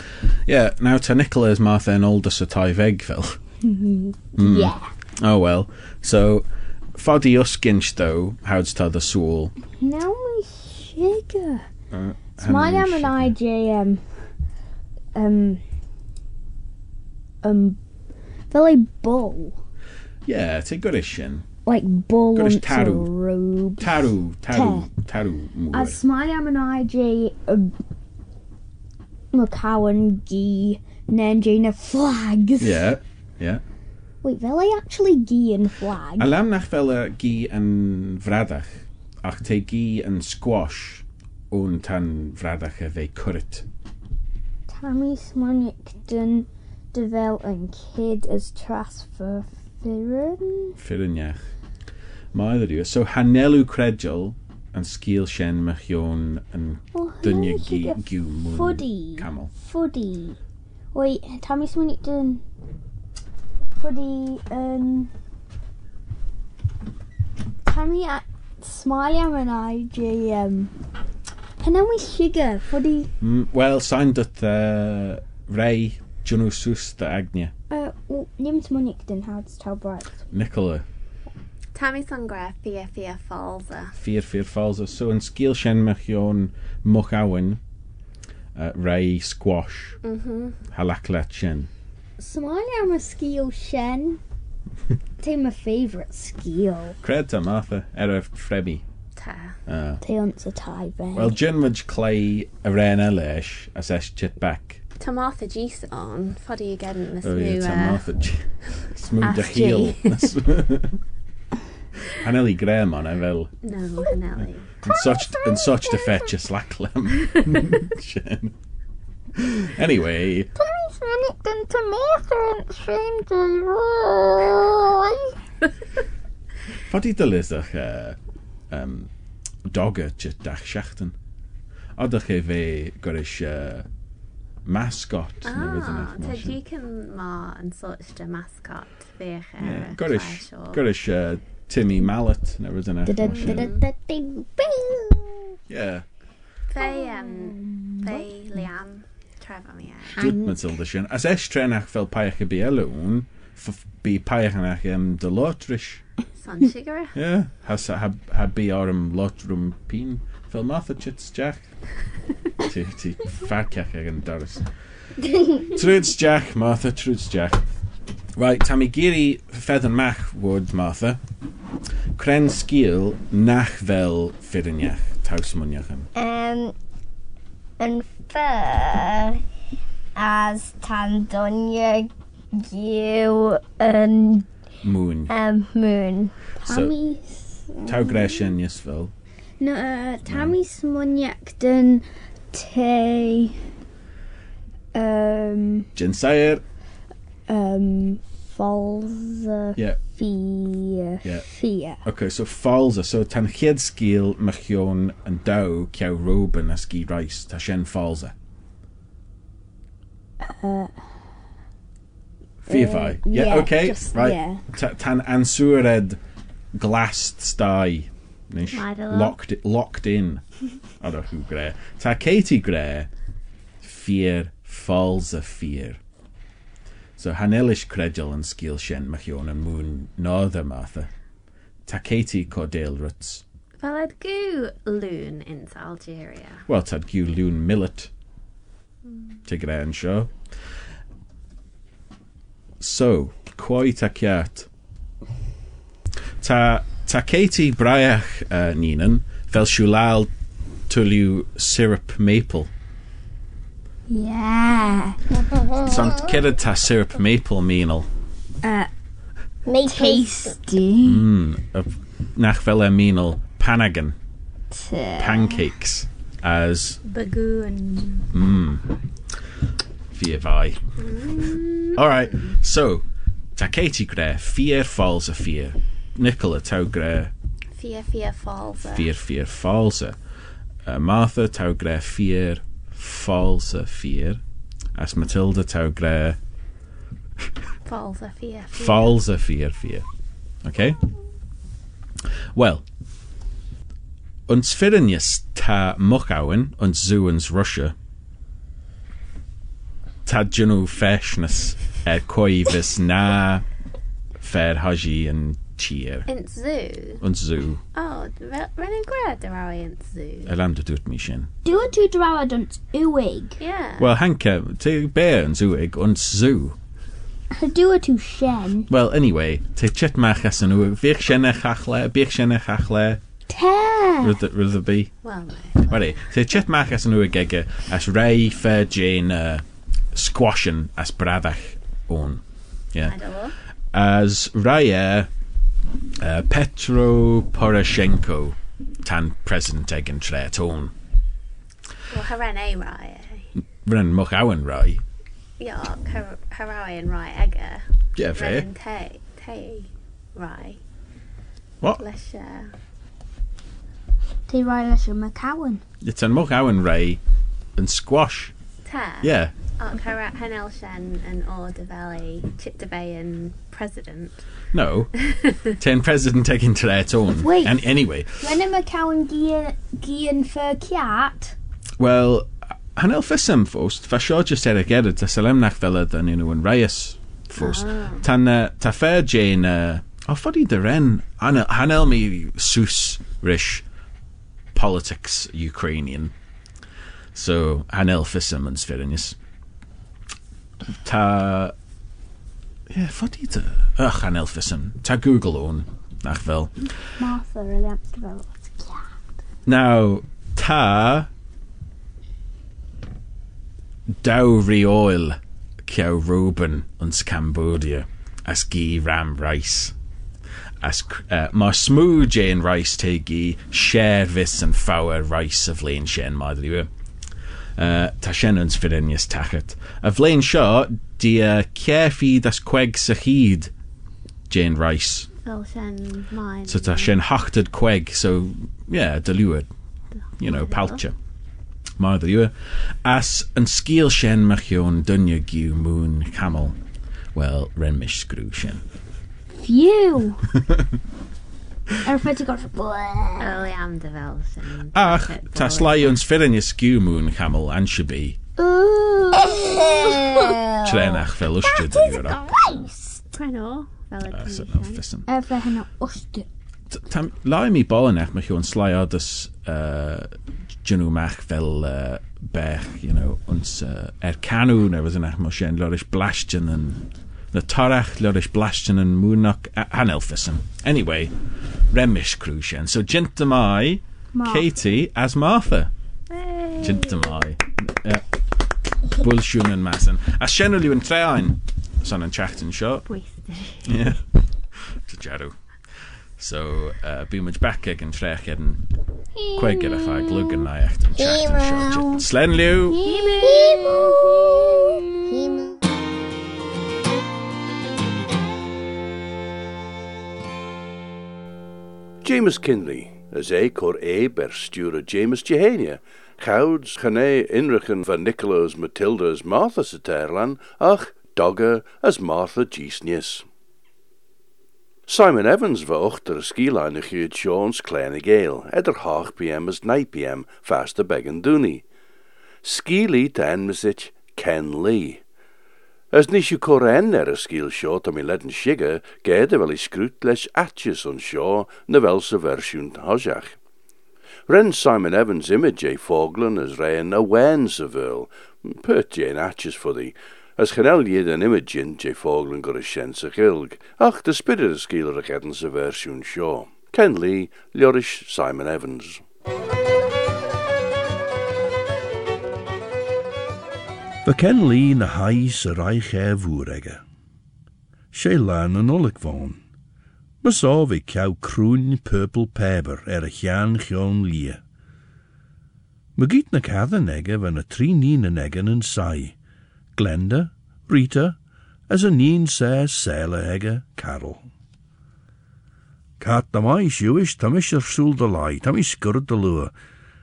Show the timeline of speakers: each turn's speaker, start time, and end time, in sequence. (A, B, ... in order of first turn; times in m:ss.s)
0:00.5-0:03.4 A
0:03.6-0:04.9 B
0:04.4-0:09.5 A
0:09.7-0:11.7 B
0:11.9-0:13.3 A
0:12.4-0:14.0 B
0:15.2-0:15.6 B
0:17.4-0:17.8 B
0:18.5-0:19.6 B
0:20.3-0:21.5 A
0:21.7-0:24.9 B
0:22.4-0:23.1 A
0:23.8-0:26.0 A
0:25.7-0:27.8 B
0:29.3-0:32.9 B
0:32.6-0:33.6 A
0:34.2-0:36.3 B
0:36.2-0:43.6 A
0:44.7-0:50.8 B
0:50.8-0:51.5 A
0:52.3-0:59.5 A
0:56.9-1:00.4 B
1:00.9-1:02.4 B
1:03.8-1:05.1 B
1:07.7-1:10.8 B
1:11.6-1:13.1 B
1:13.2-1:17.5 A
1:17.7-1:20.2 B
1:20.3-1:20.8 A
1:21.7-1:24.0 C
1:24.0-1:27.6 A
1:28.6-1:30.0 A
1:30.0-1:30.6 C
1:30.7-1:31.7 A
1:32.2-1:34.2 B
1:35.2-1:37.0 B
1:37.0-1:38.8 A
1:39.2-1:39.6 C
1:39.7-1:40.0 A
1:40.0-1:41.4 B
1:41.2-1:44.8 A
1:45.0-1:48.0 C
1:47.2-1:51.0 A
1:49.2-1:50.3 C
1:52.1-1:53.5 A
1:53.6-1:55.0 C
1:54.8-1:58.5 A
1:59.4-2:00.5 A
2:00.6-2:05.3 D
2:06.9-2:08.2 A
2:08.7-2:09.1 A
2:09.7-2:11.1 A
2:12.0-2:13.9 A
2:14.6-2:16.6 A
2:15.4-2:20.8 C
2:19.6-2:23.7 A
2:23.1-2:25.3 B
2:23.2-2:23.8 C
2:25.7-2:26.1 A
2:26.7-2:30.3 C
2:26.8-2:28.3 B
2:30.2-2:30.7 B
2:30.2-2:36.0 A
2:36.4-2:37.2 C
2:37.2-2:41.7 A
2:42.6-2:44.7 A
2:45.6-2:47.6 A
2:48.4-2:51.2 A
2:52.2-2:56.1 A
2:56.2-2:56.8 D
2:57.8-2:59.4 D
3:00.2-3:04.5 D
3:04.8-3:05.3 A
3:05.3-3:06.3 D
3:06.6-3:08.3 B
3:06.7-3:06.9 A
3:07.8-3:09.1 A
3:09.6-3:13.6 B
3:10.3-3:10.5 A
3:14.9-3:15.9 B
3:16.0-3:16.6 A
3:17.5-3:22.0 B
3:22.0-3:28.3 A
3:30.4-3:31.1 B
3:32.6-3:36.2 A
3:32.7-3:34.6 B
3:36.8-3:40.4 A
3:38.7-3:39.4 C
3:41.0-3:43.1 A
3:43.8-3:46.0 A
3:47.2-3:51.1 A
3:51.9-3:53.4 A
3:53.8-3:56.6 C
3:56.7-3:58.1 A
3:59.5-4:00.3 A
4:02.8-4:04.7 A
4:06.4-4:10.3 A
4:10.9-4:12.7 A
4:14.1-4:15.2 B
4:15.3-4:16.2 D
4:15.8-4:18.1 A
4:18.6-4:18.9 B
4:19.7-4:20.6 D
4:19.9-4:21.3 B
4:21.0-4:24.2 A
4:24.7-4:25.6 B
4:25.2-4:27.0 A
4:27.0-4:28.3 C
4:28.3-4:28.8 A
4:30.1-4:30.8 A
4:31.0-4:32.5 C
4:31.9-4:33.0 A
4:33.6-4:37.3 A
4:37.7-4:39.1 C
4:38.8-4:40.2 A
4:40.9-4:44.4 A
4:45.0-4:46.4 A
4:47.8-4:49.2 C
4:48.8-4:50.1 A
4:50.6-4:51.0 A
4:52.6-4:52.8 A
4:54.5-4:57.9 A
5:00.3-5:03.6 A
5:04.4-5:06.3 A
5:06.3-5:07.2 C
5:07.2-5:07.8 A
5:07.9-5:10.5 C
5:10.5-5:11.5 A
5:11.6-5:13.6 B
5:13.6-5:14.1 C
5:14.0-5:16.8 A
5:17.5-5:18.9 B
5:18.9-5:23.2 A
5:23.5-5:24.4 B
5:24.2-5:25.1 A
5:25.2-5:26.2 C
5:25.9-5:32.4 A
5:33.0-5:33.6 C
5:33.9-5:35.3 A
5:36.2-5:40.9 A
5:42.1-5:43.5 C
5:43.9-5:45.0 A
5:45.6-5:50.8 C
5:48.2-5:48.7 A
5:52.0-5:52.7 C
5:54.5-5:55.8 B
5:56.0-5:57.2 A
5:57.8-5:58.5 A
5:58.8-6:04.5 C
5:59.2-5:59.5 A
6:04.7-6:05.1 A
6:05.3-6:05.6 C
6:05.8-6:08.5 A
6:07.4-6:07.8 B
6:08.4-6:11.6 B
6:12.0-6:23.8 A
6:17.6-6:18.2 C
6:24.7-6:26.3 A
6:27.4-6:29.4 A
6:31.0-6:31.7 A
6:32.9-6:36.9 A
6:37.2-6:39.2 B
6:39.7-6:41.3 A
6:44.2-6:49.9 A
6:50.8-6:56.9 A
6:57.8-7:03.7 A
7:04.5-7:05.3 A
7:05.4-7:07.2 C
7:06.7-7:09.7 A
7:10.4-7:11.2 A
7:10.4-7:11.0 C
7:12.0-7:16.8 A
7:17.4-7:18.8 A
7:19.5-7:20.5 B
7:22.0-7:23.7 B
7:23.4-7:26.2 C
7:24.9-7:28.4 A
7:28.6-7:30.6 B
7:29.4-7:33.2 D
7:30.8-7:32.4 A
7:33.3-7:35.0 C
7:34.3-7:35.3 A
7:35.3-7:36.5 B
7:36.9-7:40.3 A
7:40.8-7:51.3 A
7:51.9-7:55.9 A
7:54.3-7:54.7 B
7:56.3-7:57.4 C
7:56.8-7:58.2 A
7:59.1-8:03.1 A
8:03.1-8:04.1 C
8:03.8-8:04.2 A
8:04.8-8:08.8 A
8:09.5-8:10.5 D
8:09.5-8:13.0 A
8:11.2-8:12.2 D
8:12.9-8:13.5 B
8:13.0-8:13.6 C
8:13.3-8:15.8 D
8:22.2-8:33.5 E
8:35.1-8:41.8 E
8:42.6-8:45.2 E
8:46.1-8:53.6 E
8:54.5-9:09.2 E
9:14.2-9:17.0 F
9:18.1-9:19.6 F
9:20.4-9:24.6 F
9:26.2-9:29.4 F
9:30.0-9:31.4 F
9:31.9-9:34.4 F
9:36.2-9:39.7 F